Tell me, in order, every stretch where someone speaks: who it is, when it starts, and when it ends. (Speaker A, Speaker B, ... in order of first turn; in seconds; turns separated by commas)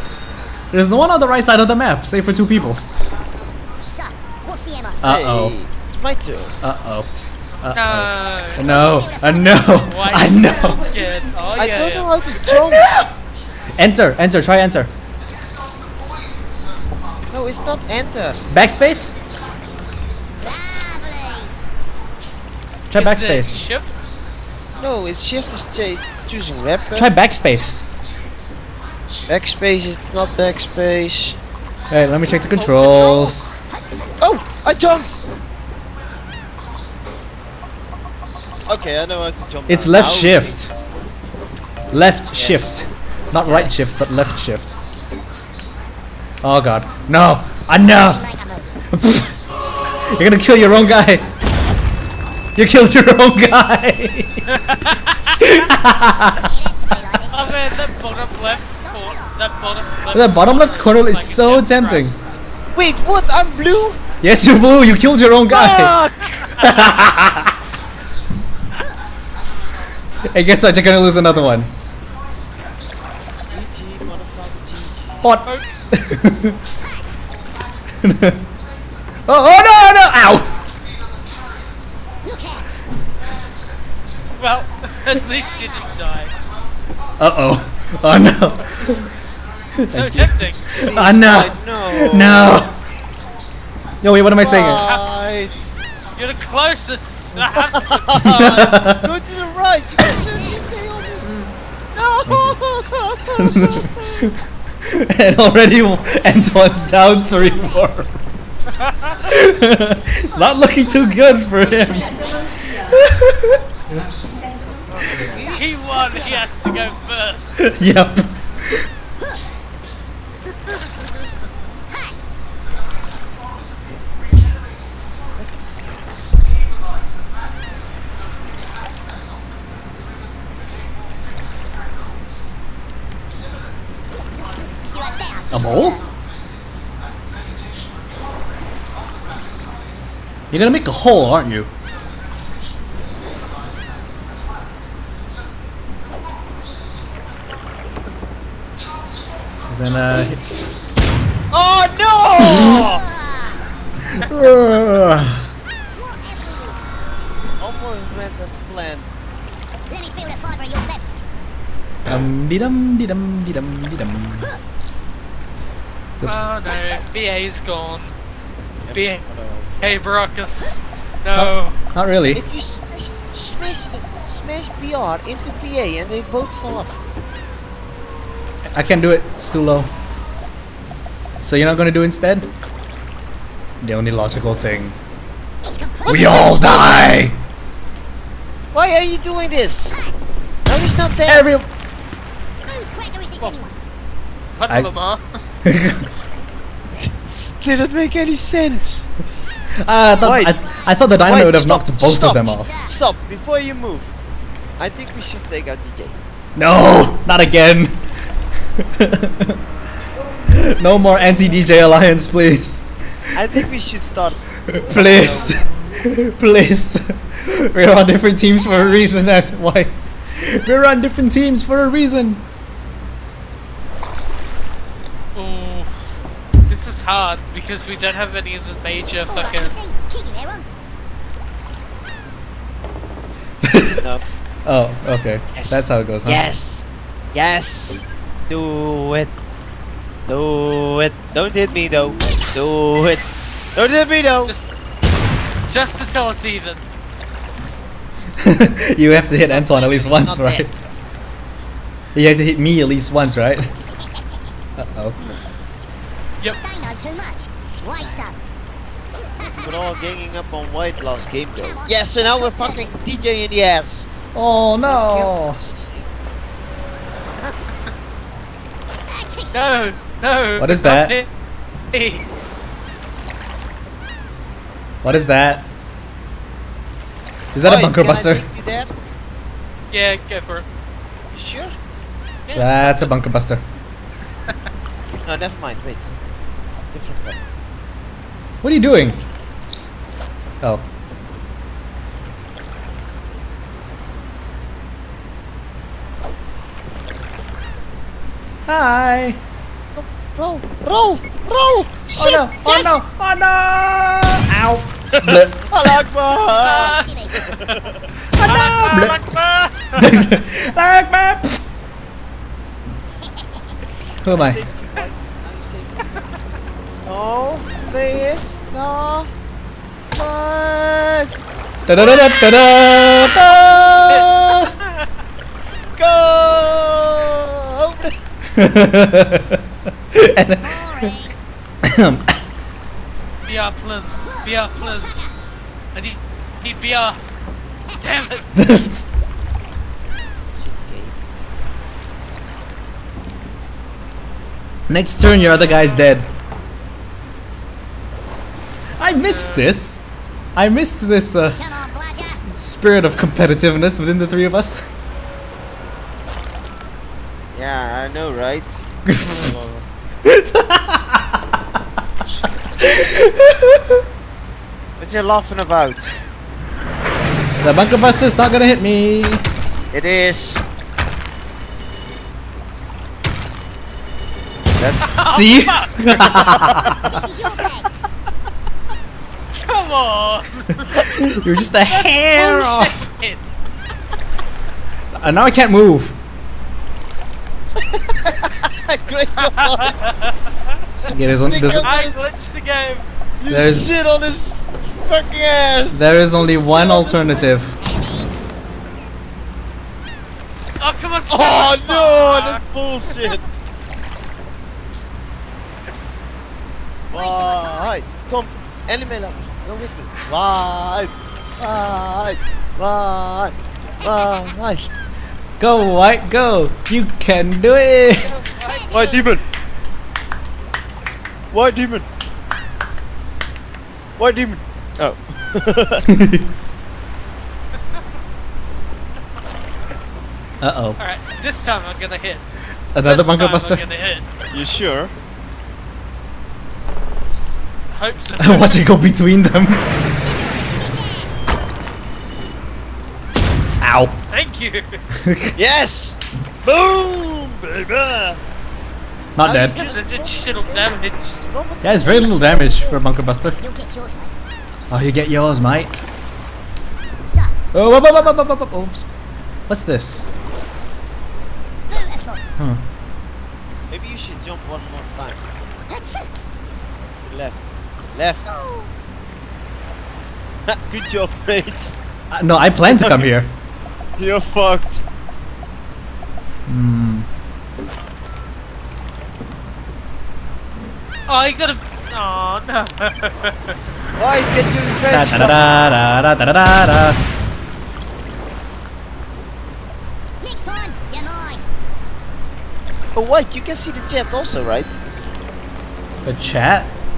Speaker A: 0.7-2.8, Speaker B: 3.9-5.0, Speaker A: 5.0-5.5, Speaker C: 5.0-6.5, Speaker A: 6.6-7.1, Speaker A: 7.6-10.9, Speaker D: 7.7-8.7, Speaker B: 8.6-9.9, Speaker D: 9.8-12.6, Speaker C: 11.5-12.9, Speaker A: 12.7-13.0, Speaker A: 13.7-14.9, Speaker C: 17.3-18.4, Speaker A: 18.5-19.1, Speaker B: 20.4-21.5, Speaker A: 22.9-23.6, Speaker D: 22.9-24.1, Speaker C: 24.8-27.1, Speaker A: 26.9-27.8, Speaker C: 29.3-31.4, Speaker A: 31.9-33.5, Speaker D: 32.5-33.4, Speaker B: 33.6-34.0, Speaker C: 34.2-35.2, Speaker C: 38.6-40.6, Speaker A: 39.7-40.7, Speaker A: 41.9-44.7, Speaker C: 42.3-42.7, Speaker C: 43.4-43.7, Speaker A: 46.4-48.2, Speaker B: 47.8-48.7, Speaker A: 48.9-49.4, Speaker A: 50.1-51.2, Speaker A: 52.5-54.5, Speaker D: 54.5-55.3, Speaker A: 55.4-56.5, Speaker B: 56.4-57.6, Speaker D: 57.3-62.1, Speaker B: 58.8-59.4, Speaker A: 60.1-62.1, Speaker C: 62.7-64.0, Speaker A: 64.2-66.0, Speaker C: 65.5-66.5, Speaker A: 66.6-67.5, Speaker A: 70.3-71.7, Speaker C: 73.5-75.2, Speaker A: 75.2-76.5, Speaker B: 76.7-77.0, Speaker A: 78.0-78.4, Speaker A: 79.3-80.5, Speaker B: 82.2-82.7, Speaker D: 84.4-86.3, Speaker B: 85.3-86.0, Speaker A: 87.2-89.1, Speaker D: 88.7-89.1, Speaker A: 89.8-92.7, Speaker D: 89.9-90.6, Speaker C: 90.7-92.6, Speaker A: 94.0-94.8, Speaker C: 94.3-95.6, Speaker D: 94.4-95.2, Speaker D: 96.1-98.0, Speaker C: 97.3-100.8, Speaker A: 98.1-99.0, Speaker D: 100.3-101.5, Speaker C: 101.9-104.2, Speaker A: 102.2-102.6, Speaker A: 103.3-108.1, Speaker B: 106.6-107.9, Speaker A: 109.2-112.1, Speaker B: 110.4-112.3, Speaker A: 112.9-113.6, Speaker C: 114.9-115.6, Speaker B: 115.4-116.5, Speaker D: 115.4-117.7, Speaker A: 117.6-118.9, Speaker B: 121.9-122.2, Speaker B: 134.4-136.1, Speaker A: 135.5-136.0, Speaker A: 140.5-141.7, Speaker A: 149.7-150.4, Speaker C: 151.5-153.0, Speaker B: 152.5-153.6, Speaker A: 154.1-155.4, Speaker B: 155.9-156.8, Speaker C: 157.6-159.1, Speaker B: 159.9-161.1, Speaker A: 162.1-164.5, Speaker D: 166.2-168.2, Speaker C: 168.8-170.0, Speaker D: 168.9-169.2, Speaker D: 169.8-171.8, Speaker A: 171.3-172.4, Speaker C: 172.3-176.9, Speaker A: 178.7-179.9, Speaker A: 181.4-182.5, Speaker A: 183.8-185.0, Speaker B: 185.6-187.1, Speaker A: 186.1-187.4, Speaker C: 188.7-189.9, Speaker B: 189.9-190.2, Speaker C: 190.7-191.5, Speaker A: 191.2-191.7, Speaker B: 192.7-193.8, Speaker D: 194.5-195.2, Speaker A: 195.6-196.1, Speaker C: 197.0-199.1, Speaker A: 199.8-202.7, Speaker B: 200.1-201.1, Speaker C: 200.2-200.6, Speaker C: 201.1-204.1, Speaker B: 202.4-202.9, Speaker C: 204.8-206.2, Speaker A: 206.6-208.0, Speaker A: 208.8-209.6, Speaker A: 210.5-212.8, Speaker C: 213.3-215.5, Speaker A: 214.7-222.4, Speaker B: 218.6-219.1, Speaker D: 225.3-225.9, Speaker D: 226.7-229.7, Speaker B: 229.3-230.7, Speaker A: 233.7-234.0, Speaker A: 234.6-236.4, Speaker C: 235.5-239.3, Speaker C: 240.3-244.5, Speaker D: 244.4-244.8, Speaker D: 245.7-246.8, Speaker A: 248.4-250.7, Speaker C: 249.5-250.7, Speaker A: 252.1-253.7, Speaker B: 254.0-254.4, Speaker A: 254.8-255.3, Speaker B: 256.6-258.4, Speaker B: 259.2-260.1, Speaker C: 259.6-264.1, Speaker B: 261.6-263.0, Speaker A: 264.3-265.6, Speaker C: 264.8-266.1, Speaker B: 269.1-269.7, Speaker D: 269.5-271.3, Speaker A: 270.6-271.1, Speaker D: 271.9-272.2, Speaker A: 275.0-275.7, Speaker A: 277.5-278.5, Speaker C: 277.6-278.9, Speaker D: 279.9-280.6, Speaker C: 281.3-281.7, Speaker D: 282.5-283.1, Speaker A: 282.5-283.6, Speaker C: 285.2-286.1, Speaker C: 286.9-287.4, Speaker A: 288.6-289.2, Speaker A: 298.7-299.4, Speaker C: 299.9-302.4, Speaker A: 302.2-306.0, Speaker B: 302.7-302.9, Speaker C: 305.2-308.1, Speaker B: 306.2-307.6, Speaker D: 306.5-307.7, Speaker A: 308.3-309.2, Speaker D: 308.4-310.0, Speaker A: 309.9-311.6, Speaker B: 313.2-313.8, Speaker A: 314.2-314.6, Speaker C: 314.3-316.2, Speaker C: 317.0-319.3, Speaker C: 320.1-321.4, Speaker A: 321.9-324.7, Speaker D: 323.4-324.3, Speaker C: 325.9-328.1, Speaker A: 328.6-329.6, Speaker A: 330.1-330.7, Speaker B: 330.6-331.4, Speaker A: 331.8-332.4, Speaker D: 333.4-335.3, Speaker B: 334.2-335.3, Speaker D: 335.9-337.2, Speaker B: 337.9-338.1, Speaker D: 338.0-338.5, Speaker A: 338.5-339.1, Speaker C: 340.6-341.1, Speaker A: 344.9-346.3, Speaker D: 345.3-346.2, Speaker A: 349.0-350.0, Speaker D: 349.1-349.7, Speaker A: 350.6-351.6, Speaker B: 351.6-352.4, Speaker A: 352.3-354.8, Speaker C: 357.5-359.8, Speaker A: 359.1-359.4, Speaker A: 360.2-361.4, Speaker C: 362.2-362.9, Speaker A: 362.9-364.0, Speaker C: 365.0-366.1, Speaker A: 367.6-369.4, Speaker C: 369.9-370.6, Speaker C: 374.8-375.1, Speaker D: 375.1-377.1, Speaker A: 375.2-377.1, Speaker B: 377.0-377.9, Speaker D: 379.5-381.0, Speaker A: 380.9-383.0, Speaker D: 381.9-383.4, Speaker A: 385.2-386.2, Speaker C: 387.8-389.9, Speaker D: 389.4-390.3, Speaker C: 391.1-392.2, Speaker A: 391.1-391.9, Speaker D: 391.8-393.0, Speaker C: 393.4-397.4, Speaker A: 393.5-393.9, Speaker A: 395.9-397.8, Speaker B: 397.8-398.5, Speaker D: 400.8-402.6, Speaker C: 401.3-403.4, Speaker C: 407.1-414.9, Speaker B: 407.1-407.9, Speaker B: 414.0-414.6, Speaker A: 415.6-418.3, Speaker D: 418.2-418.8, Speaker B: 418.6-419.3, Speaker C: 418.9-419.4, Speaker C: 421.5-422.1, Speaker C: 424.2-426.0, Speaker A: 426.1-426.4, Speaker A: 430.6-431.0, Speaker D: 431.0-432.4, Speaker A: 432.9-433.8, Speaker D: 433.0-434.2, Speaker C: 434.5-435.1, Speaker D: 437.9-438.8, Speaker A: 438.4-439.8, Speaker B: 440.2-441.3, Speaker A: 443.8-444.1, Speaker D: 444.3-445.0, Speaker A: 445.2-445.5, Speaker C: 445.5-448.4, Speaker A: 449.4-449.8, Speaker C: 449.4-453.0, Speaker D: 449.5-451.5, Speaker A: 451.8-453.6, Speaker B: 453.6-454.3, Speaker A: 454.9-455.9, Speaker B: 457.3-458.4, Speaker A: 457.7-459.0, Speaker A: 459.7-460.2, Speaker B: 461.9-462.4, Speaker C: 463.9-465.4, Speaker B: 465.9-466.3, Speaker C: 467.2-467.6, Speaker C: 468.1-468.4, Speaker B: 468.4-468.9, Speaker C: 470.7-471.9, Speaker A: 472.3-473.5, Speaker C: 472.8-473.3, Speaker C: 474.2-475.0, Speaker A: 476.7-477.3, Speaker D: 481.3-483.8, Speaker C: 484.1-485.6, Speaker A: 485.1-487.2, Speaker B: 490.4-491.6, Speaker C: 493.1-494.9, Speaker A: 496.2-496.9